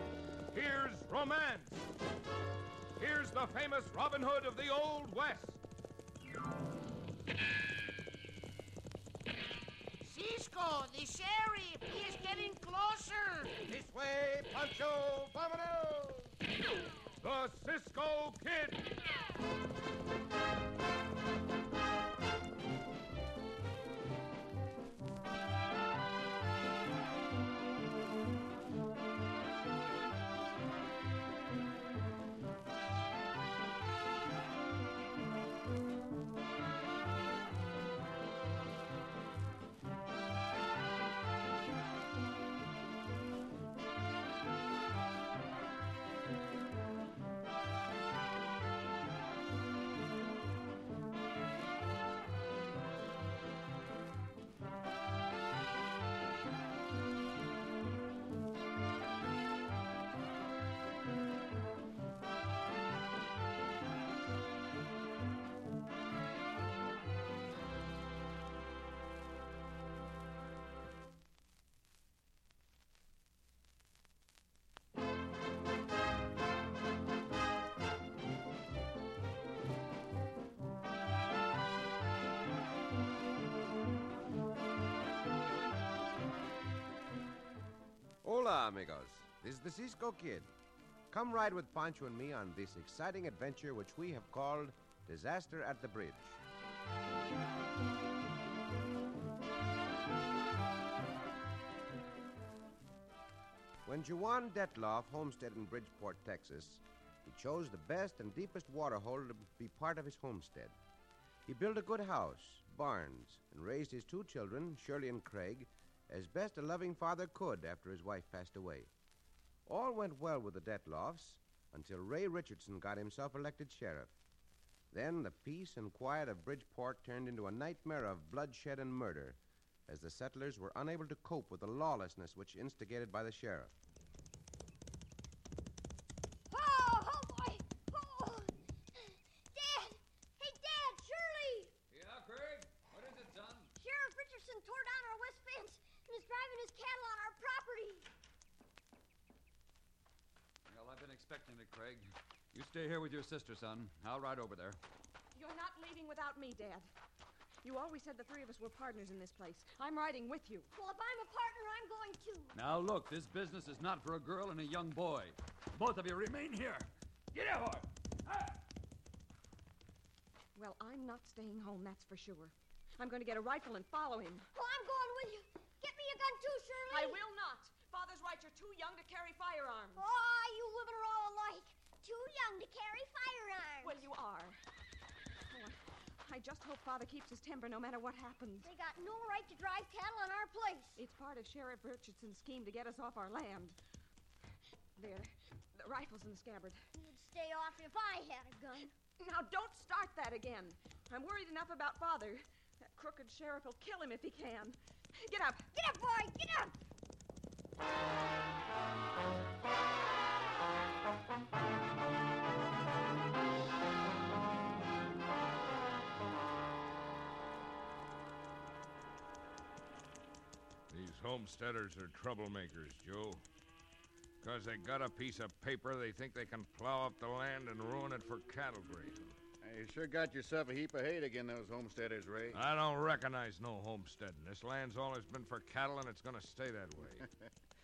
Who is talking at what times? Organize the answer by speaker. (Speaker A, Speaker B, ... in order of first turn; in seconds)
Speaker A: 0.5-1.9, 3.0-5.6, 17.2-18.8, 220.9-223.4, 224.4-229.4, 232.5-237.2
Speaker B: 10.0-13.6
Speaker C: 13.7-16.3, 88.2-90.5, 91.1-96.4, 103.8-110.7, 111.5-118.9, 119.7-124.1, 124.9-133.7
Speaker D: 136.5-141.7, 143.8-148.1, 160.7-162.6, 174.5-177.2, 179.9-184.0, 188.6-191.0, 196.9-198.9, 205.7-206.7
Speaker E: 141.9-143.7, 150.7-154.8, 162.5-168.6
Speaker F: 155.3-156.9, 157.6-160.7, 170.5-174.5, 176.9-180.1, 183.8-184.6, 185.5-188.7, 191.0-193.8, 194.9-196.8, 199.2-205.7
Speaker G: 229.6-232.6, 237.2-237.5